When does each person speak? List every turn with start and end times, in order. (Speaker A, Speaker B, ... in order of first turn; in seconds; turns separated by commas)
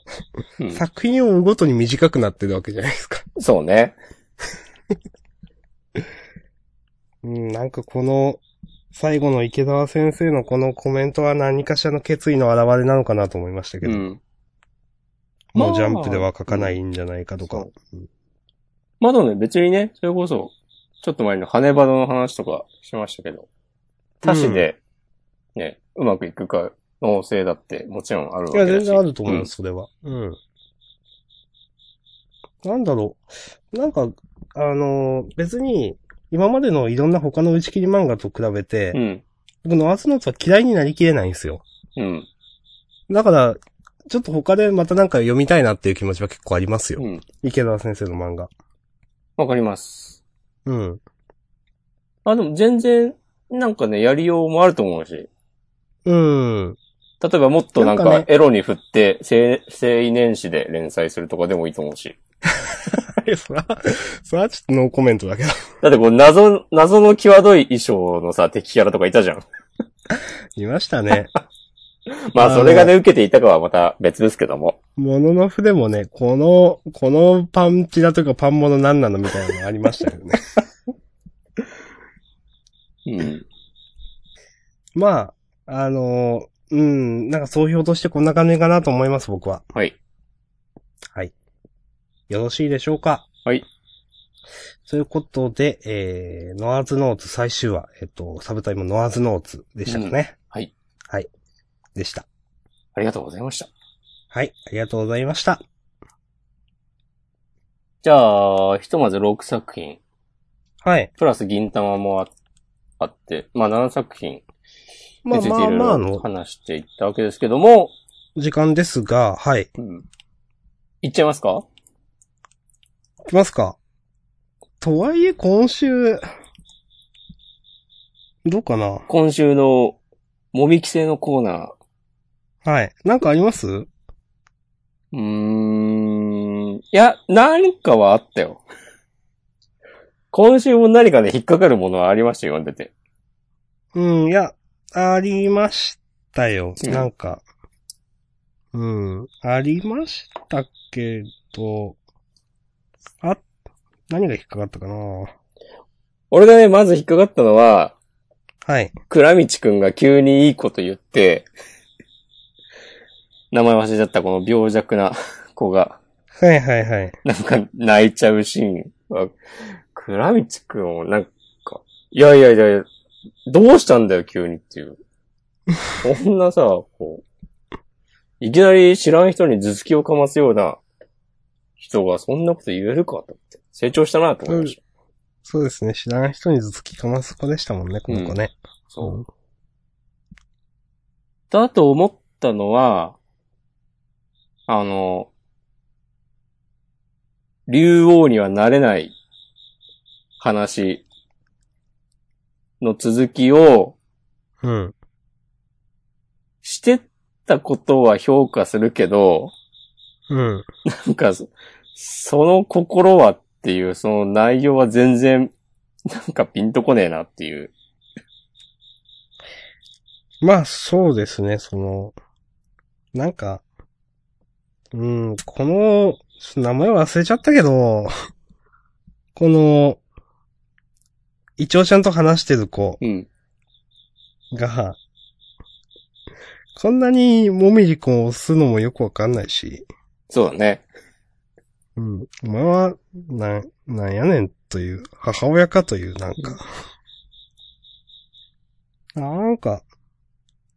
Speaker A: 0.7-3.3, Speaker B: 3.4-4.0, Speaker A: 7.2-8.4, Speaker A: 8.9-14.1, Speaker B: 13.8-14.2, Speaker A: 15.5-18.1, Speaker B: 15.6-16.7, Speaker B: 19.0-23.5, Speaker B: 24.2-24.8, Speaker A: 24.3-24.7, Speaker B: 25.6-29.5, Speaker A: 28.5-30.4, Speaker A: 32.6-39.0, Speaker B: 38.9-39.2, Speaker A: 39.6-41.6, Speaker B: 42.0-42.3, Speaker A: 43.1-48.5, Speaker B: 47.0-47.2, Speaker B: 49.4-50.2, Speaker A: 50.7-51.0, Speaker B: 52.3-55.3, Speaker A: 56.0-56.8, Speaker B: 57.2-62.2, Speaker A: 57.8-58.3, Speaker A: 62.9-65.6, Speaker B: 65.8-69.5, Speaker A: 70.6-71.3, Speaker B: 72.3-74.8, Speaker A: 72.4-72.9, Speaker A: 75.0-80.4, Speaker B: 83.1-83.5, Speaker A: 85.0-89.6, Speaker A: 92.3-93.3, Speaker A: 94.9-100.3, Speaker B: 99.9-100.7, Speaker A: 102.0-102.3, Speaker B: 103.0-103.7, Speaker A: 104.3-105.6, Speaker B: 108.0-110.0, Speaker A: 110.8-111.1, Speaker B: 111.2-112.3, Speaker B: 113.0-114.4, Speaker A: 115.2-116.2, Speaker B: 115.3-117.9, Speaker A: 118.4-119.7, Speaker B: 119.8-120.0, Speaker B: 121.0-121.7, Speaker A: 123.3-123.8, Speaker A: 124.8-126.2, Speaker A: 128.4-129.1, Speaker B: 129.1-130.0, Speaker B: 130.5-131.7, Speaker A: 132.6-133.9, Speaker B: 135.1-138.6, Speaker B: 140.3-142.9, Speaker A: 143.9-147.4, Speaker B: 146.8-147.1, Speaker A: 148.7-152.0, Speaker A: 154.1-155.3, Speaker B: 156.3-157.9, Speaker A: 158.7-158.9, Speaker B: 159.1-161.5, Speaker B: 163.5-166.0, Speaker A: 166.4-167.2, Speaker B: 167.2-169.3, Speaker B: 169.9-172.9, Speaker B: 173.5-175.0, Speaker B: 176.0-177.2, Speaker B: 178.4-180.8, Speaker B: 181.8-184.8, Speaker A: 184.5-184.7, Speaker A: 185.4-189.3, Speaker B: 188.1-188.4, Speaker B: 188.9-189.2, Speaker B: 191.5-193.2, Speaker B: 194.7-195.3, Speaker B: 197.7-199.2, Speaker B: 200.4-201.0, Speaker B: 202.8-204.0, Speaker A: 204.6-204.9, Speaker B: 206.6-209.5, Speaker A: 210.3-210.7, Speaker B: 210.9-215.5, Speaker B: 216.1-217.7, Speaker A: 220.4-222.2, Speaker A: 223.1-223.6, Speaker A: 224.9-228.1, Speaker A: 229.4-230.0, Speaker A: 231.6-233.0, Speaker B: 233.0-233.3, Speaker A: 234.5-235.0, Speaker A: 236.8-239.8, Speaker B: 240.3-240.8, Speaker A: 242.0-246.6, Speaker A: 249.2-249.8